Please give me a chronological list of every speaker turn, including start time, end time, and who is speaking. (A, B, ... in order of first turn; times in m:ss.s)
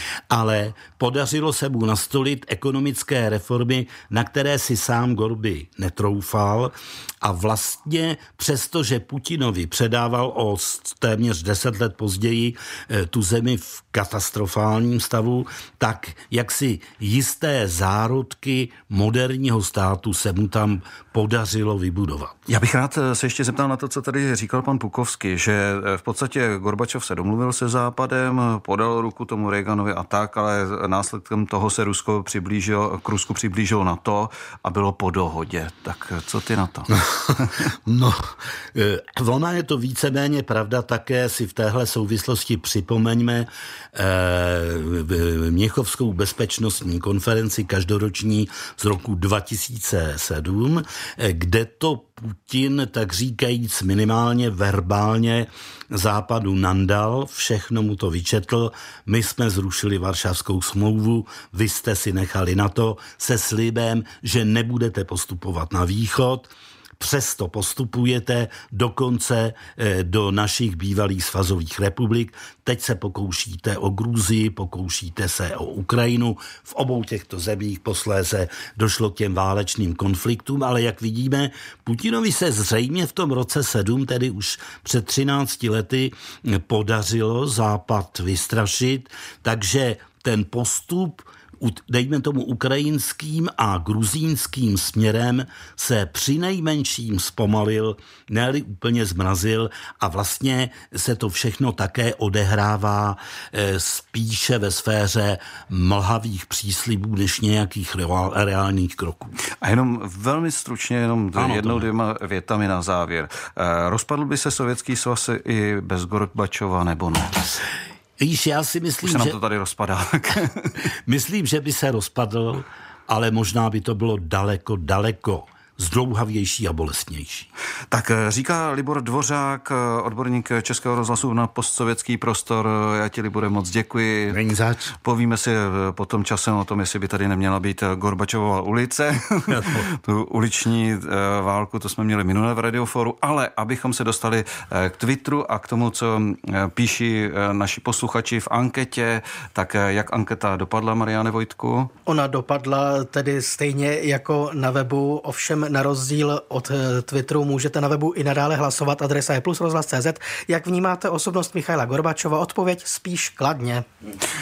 0:00.3-0:22.4 A
0:22.5-0:37.6 B
0:37.1-1:49.3 A
1:49.6-1:57.4 B
1:51.4-1:51.9 A
1:58.2-1:59.4 A
1:59.0-2:00.8 B
2:01.0-2:07.5 A
2:07.9-2:14.4 B
2:14.3-2:14.9 A
2:15.0-2:31.9 B
2:19.5-2:19.9 A
2:32.0-2:43.8 C